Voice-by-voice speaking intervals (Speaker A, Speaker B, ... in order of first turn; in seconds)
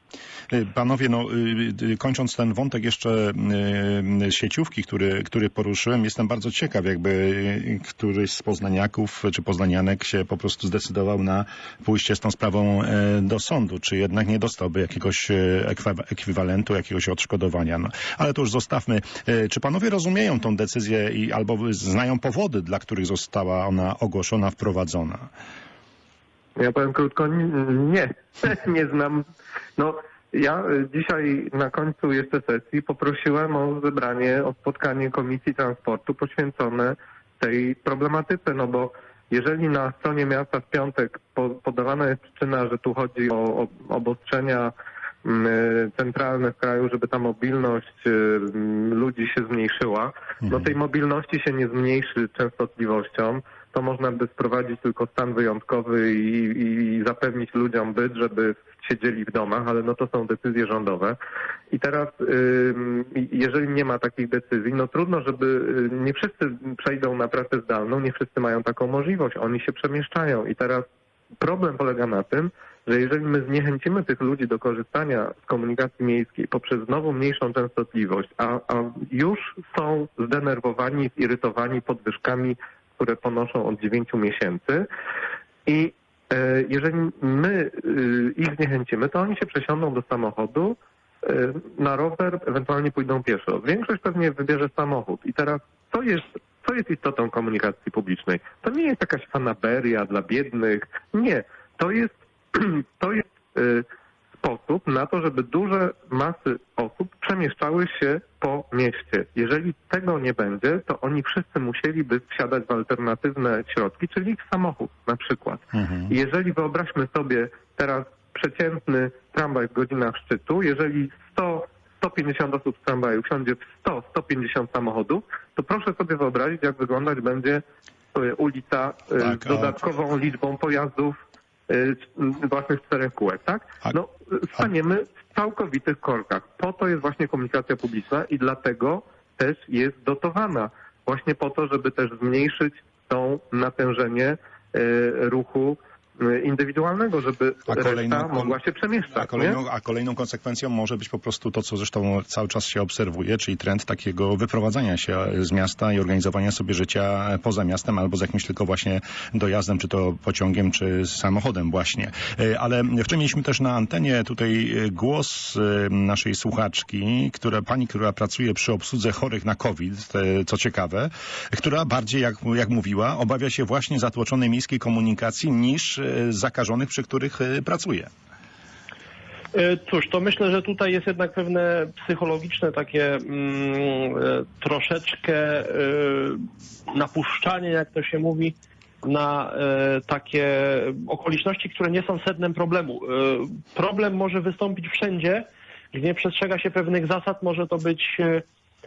Speaker A: 0.5-25.3, 115.7-116.1, 129.2-129.8, 147.7-148.6, 149.1-178.1
Speaker B: 26.6-29.2, 29.8-44.7, 45.2-61.2, 61.7-70.8, 71.4-84.9, 85.7-103.8, 104.4-127.6, 128.1-131.2, 131.7-149.6
Speaker C: 179.5-198.4